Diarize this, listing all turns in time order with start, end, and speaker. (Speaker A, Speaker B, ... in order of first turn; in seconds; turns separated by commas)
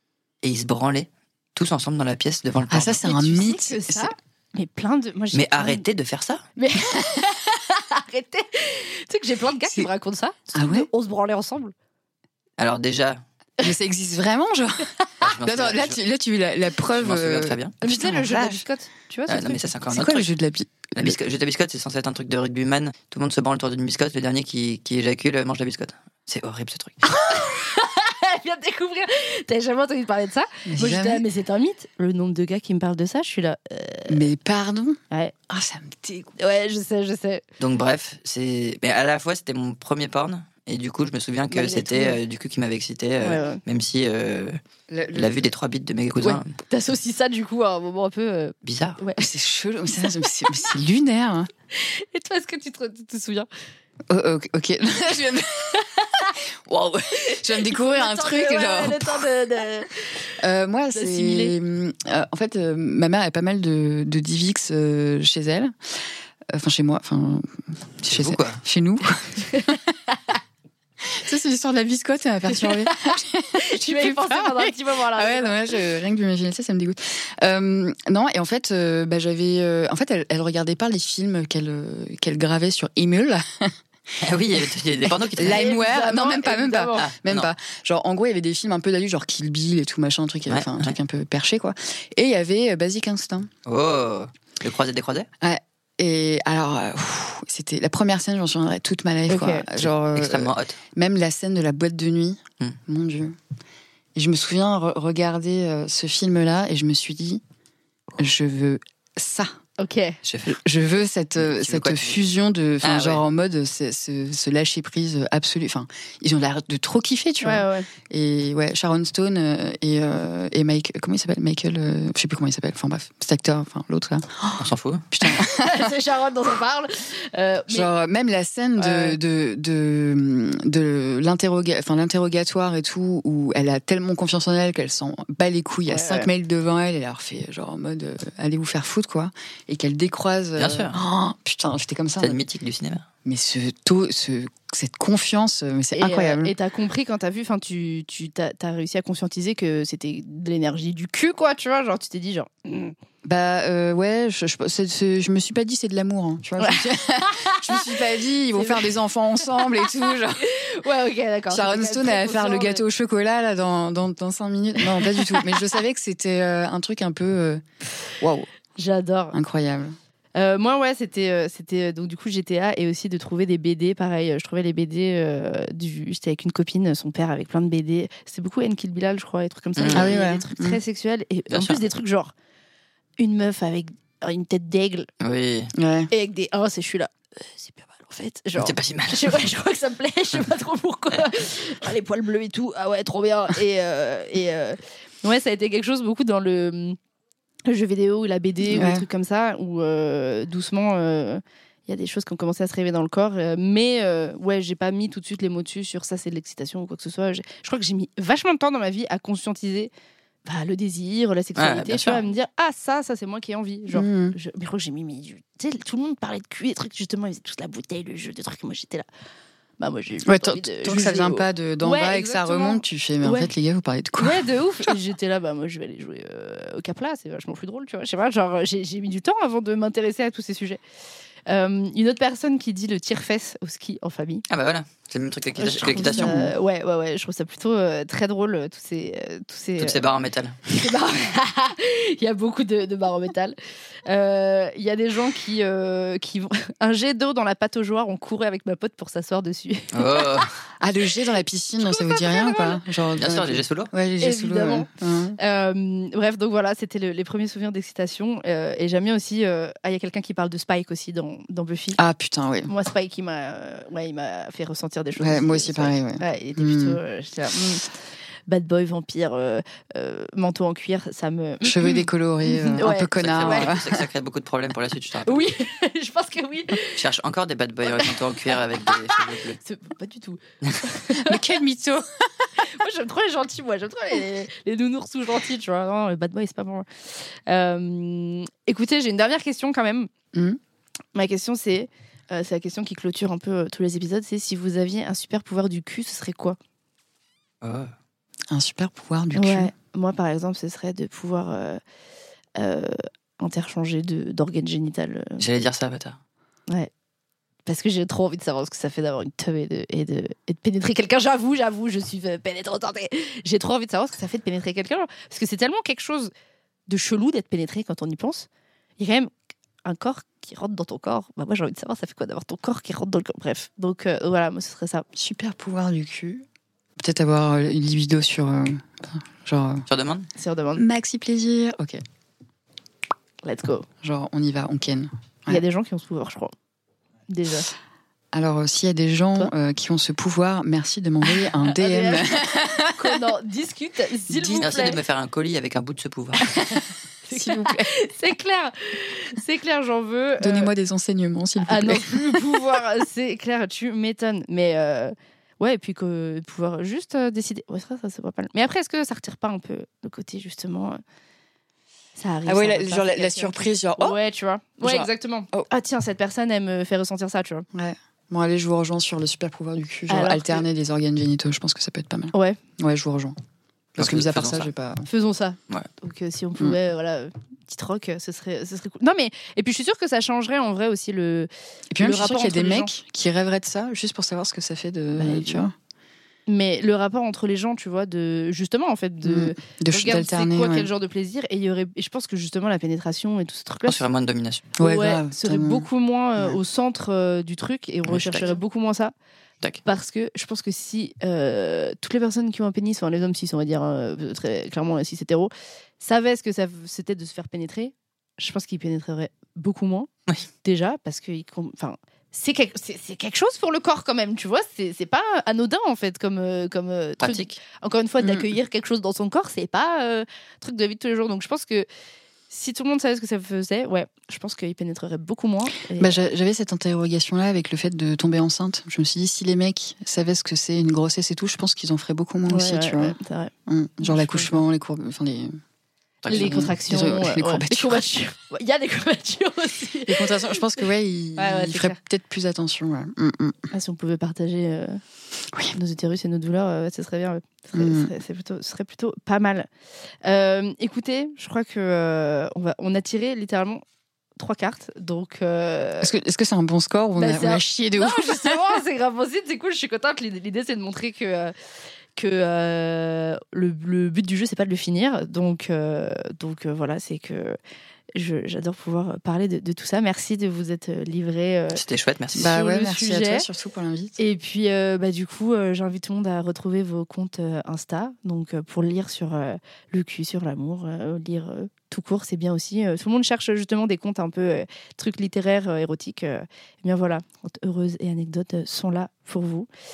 Speaker A: 0.4-3.0, Speaker B: 2.7-4.1, Speaker C: 3.0-5.8, Speaker A: 5.3-6.4, Speaker C: 6.6-11.7, Speaker B: 9.7-9.9, Speaker B: 10.6-10.9, Speaker A: 12.6-13.2, Speaker B: 13.6-18.6, Speaker A: 15.2-16.0, Speaker A: 16.9-17.8, Speaker C: 17.8-19.7, Speaker A: 19.3-20.3, Speaker B: 19.9-21.2, Speaker A: 20.9-27.1, Speaker C: 27.1-34.3, Speaker B: 30.7-31.2, Speaker B: 34.1-35.0, Speaker B: 35.5-36.3, Speaker C: 36.4-37.5, Speaker A: 37.6-44.6, Speaker C: 41.5-42.2, Speaker C: 43.2-43.6, Speaker B: 44.9-45.5, Speaker A: 45.1-46.5, Speaker C: 46.2-49.3, Speaker A: 48.6-49.0, Speaker B: 49.2-51.5, Speaker C: 51.7-53.5, Speaker B: 54.1-59.6, Speaker C: 55.7-56.4, Speaker C: 57.3-60.3, Speaker B: 60.4-69.9, Speaker C: 60.9-61.5, Speaker A: 68.0-68.6, Speaker C: 69.4-70.4, Speaker B: 71.0-83.8, Speaker C: 72.5-75.8, Speaker A: 84.2-85.7, Speaker B: 84.3-93.5, Speaker C: 85.4-87.1, Speaker A: 87.0-87.5, Speaker A: 90.5-91.0, Speaker A: 93.7-95.3, Speaker B: 95.4-103.4, Speaker C: 99.3-99.7, Speaker A: 99.8-100.8, Speaker B: 104.2-107.4, Speaker B: 108.2-109.5, Speaker C: 109.8-110.2, Speaker A: 110.2-110.6, Speaker B: 110.5-125.9, Speaker A: 111.4-112.2, Speaker A: 112.8-113.2, Speaker C: 117.4-117.9, Speaker A: 124.6-125.0, Speaker C: 125.2-127.9, Speaker B: 127.7-142.4, Speaker C: 128.8-129.2, Speaker C: 135.9-136.3, Speaker A: 140.6-141.0, Speaker A: 142.2-143.1, Speaker B: 143.2-146.5, Speaker C: 146.0-152.9, Speaker B: 153.2-160.6, Speaker C: 156.6-159.8, Speaker C: 160.3-162.8, Speaker B: 161.5-167.6, Speaker C: 164.9-165.7, Speaker B: 168.2-168.5, Speaker C: 168.8-169.4, Speaker B: 169.3-170.0, Speaker C: 170.3-182.3, Speaker A: 179.8-180.2, Speaker B: 179.9-180.8, Speaker A: 181.5-181.8, Speaker C: 183.2-185.1, Speaker A: 185.2-185.7, Speaker B: 185.7-186.1, Speaker C: 186.1-197.0, Speaker A: 188.6-189.4, Speaker C: 197.7-209.9, Speaker B: 198.7-199.1, Speaker C: 210.4-219.1, Speaker A: 211.6-212.2, Speaker B: 213.9-214.4, Speaker C: 219.8-223.5, Speaker B: 220.3-224.9, Speaker C: 224.2-230.8, Speaker C: 231.5-234.4, Speaker A: 234.5-236.4, Speaker C: 235.6-250.5, Speaker B: 236.0-236.5, Speaker A: 239.8-240.6, Speaker A: 249.9-250.5, Speaker B: 250.8-255.4, Speaker C: 251.8-252.8, Speaker A: 253.2-253.9, Speaker C: 254.2-262.0, Speaker B: 262.0-262.7, Speaker C: 262.7-267.9, Speaker B: 265.2-267.0, Speaker C: 268.5-273.8, Speaker B: 271.6-274.1, Speaker A: 273.2-275.4, Speaker C: 275.2-277.0, Speaker A: 276.9-279.6, Speaker C: 277.9-281.5, Speaker B: 281.1-282.6, Speaker C: 282.6-286.9, Speaker C: 287.5-290.1, Speaker B: 290.3-290.6, Speaker C: 291.1-296.6, Speaker A: 297.6-297.9, Speaker B: 298.5-299.7, Speaker C: 299.4-301.8, Speaker C: 302.6-305.4, Speaker A: 305.4-306.2, Speaker C: 307.7-316.3, Speaker C: 316.9-319.3, Speaker C: 319.8-325.1, Speaker B: 325.1-326.4, Speaker B: 327.0-329.9, Speaker A: 329.9-330.3, Speaker C: 330.4-330.9, Speaker B: 330.8-332.0, Speaker C: 333.4-333.9, Speaker B: 334.0-335.6, Speaker C: 335.5-336.5, Speaker C: 337.3-337.7, Speaker B: 338.3-343.2, Speaker C: 341.3-345.0, Speaker B: 344.3-344.9, Speaker A: 344.6-346.5, Speaker C: 346.5-350.7, Speaker B: 347.3-347.9, Speaker B: 350.4-352.8, Speaker C: 351.6-361.0, Speaker C: 362.2-367.7, Speaker B: 362.5-364.2, Speaker B: 364.8-365.7, Speaker B: 367.7-373.4, Speaker C: 370.1-370.7, Speaker C: 372.3-372.6, Speaker B: 374.0-375.1, Speaker A: 374.0-374.7, Speaker C: 375.1-382.9, Speaker B: 381.9-385.7, Speaker C: 385.1-385.7, Speaker C: 386.5-394.0, Speaker B: 389.2-390.9, Speaker A: 393.9-394.7, Speaker B: 394.8-395.9, Speaker C: 394.8-399.1, Speaker A: 398.1-398.6, Speaker C: 399.9-410.1, Speaker C: 410.6-421.9, Speaker A: 417.2-417.6, Speaker C: 422.5-426.2, Speaker B: 426.0-435.6, Speaker C: 432.5-434.6, Speaker A: 436.2-436.7, Speaker C: 436.3-440.6, Speaker B: 436.3-438.0, Speaker B: 440.1-443.7, Speaker C: 441.4-442.0, Speaker C: 443.7-445.0, Speaker C: 445.7-449.7, Speaker B: 447.7-448.1, Speaker C: 450.2-453.8, Speaker C: 454.4-456.1, Speaker B: 456.0-458.8, Speaker C: 457.2-461.5, Speaker C: 462.2-467.6, Speaker C: 468.1-471.8, Speaker A: 471.7-472.5, Speaker B: 472.4-474.2, Speaker C: 472.4-473.5, Speaker C: 474.2-489.7